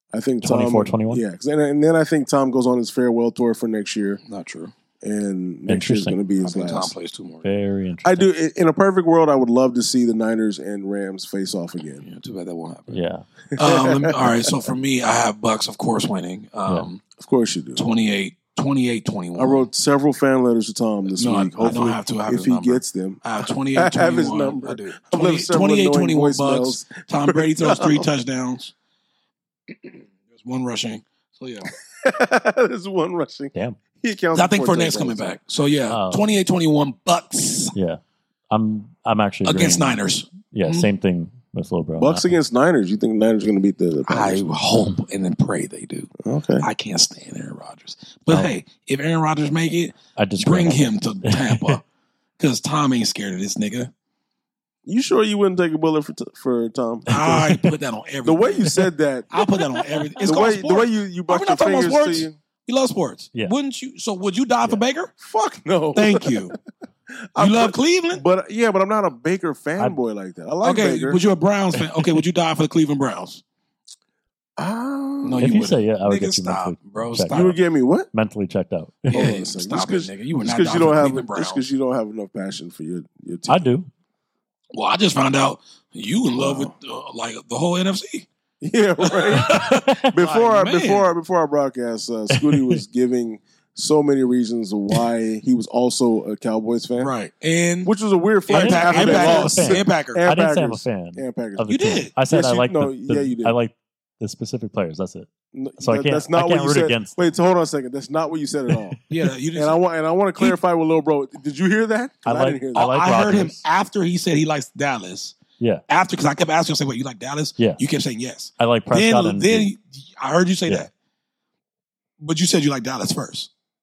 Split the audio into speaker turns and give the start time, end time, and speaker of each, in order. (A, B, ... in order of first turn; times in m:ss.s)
0:00.1-0:04.2 A
0:00.4-0:01.2 B
0:04.3-0:04.7 C
0:05.0-0:06.9 A
0:05.7-0:06.2 B
0:06.4-0:07.5 C
0:07.4-0:08.3 B
0:08.0-0:12.0 A
0:12.0-0:13.0 C
0:12.9-0:13.2 B
0:13.5-0:14.4 A
0:13.6-0:17.0 C
0:17.2-0:17.8 A
0:17.8-0:19.7 C
0:19.4-0:28.1 A
0:21.1-0:28.7 C
0:29.7-0:31.7 C
0:31.9-0:35.4 A
0:33.5-0:33.8 B
0:34.3-0:37.8 C
0:35.9-0:36.4 B
0:37.8-0:42.3 B
0:39.4-0:40.9 C
0:42.0-0:44.5 A
0:44.1-0:51.8 C
0:46.2-0:46.7 A
0:50.2-0:51.8 B
0:52.4-0:53.9 C
0:54.9-0:57.1 A
0:57.1-0:57.7 B
0:57.1-0:58.8 C
0:58.2-0:59.3 A
0:59.3-1:05.1 C
0:59.4-1:00.2 B
1:00.2-1:02.4 A
1:05.2-1:06.5 A
1:06.0-1:06.6 C
1:07.4-1:11.2 A
1:07.4-1:08.2 C
1:10.6-1:13.4 C
1:11.8-1:12.1 B
1:14.6-1:15.6 A
1:15.2-1:17.6 C
1:15.4-1:17.6 B
1:17.3-1:18.1 A
1:18.1-1:19.2 B
1:19.1-1:23.7 A
1:19.1-1:21.7 C
1:23.5-1:23.9 B
1:24.7-1:28.3 C
1:26.4-1:26.7 A
1:28.6-1:37.1 A
1:29.0-1:31.1 C
1:29.4-1:30.1 B
1:32.3-1:32.8 B
1:37.0-1:37.9 C
1:37.8-1:43.6 A
1:38.5-1:40.2 C
1:38.5-1:45.3 B
1:41.7-1:42.1 C
1:45.5-1:49.0 A
1:45.8-1:47.3 B
1:49.1-1:49.8 C
1:49.5-1:53.0 A
1:52.2-1:53.7 B
1:52.8-1:55.4 C
1:55.9-2:00.9 C
1:58.6-1:59.7 B
2:02.2-2:03.5 C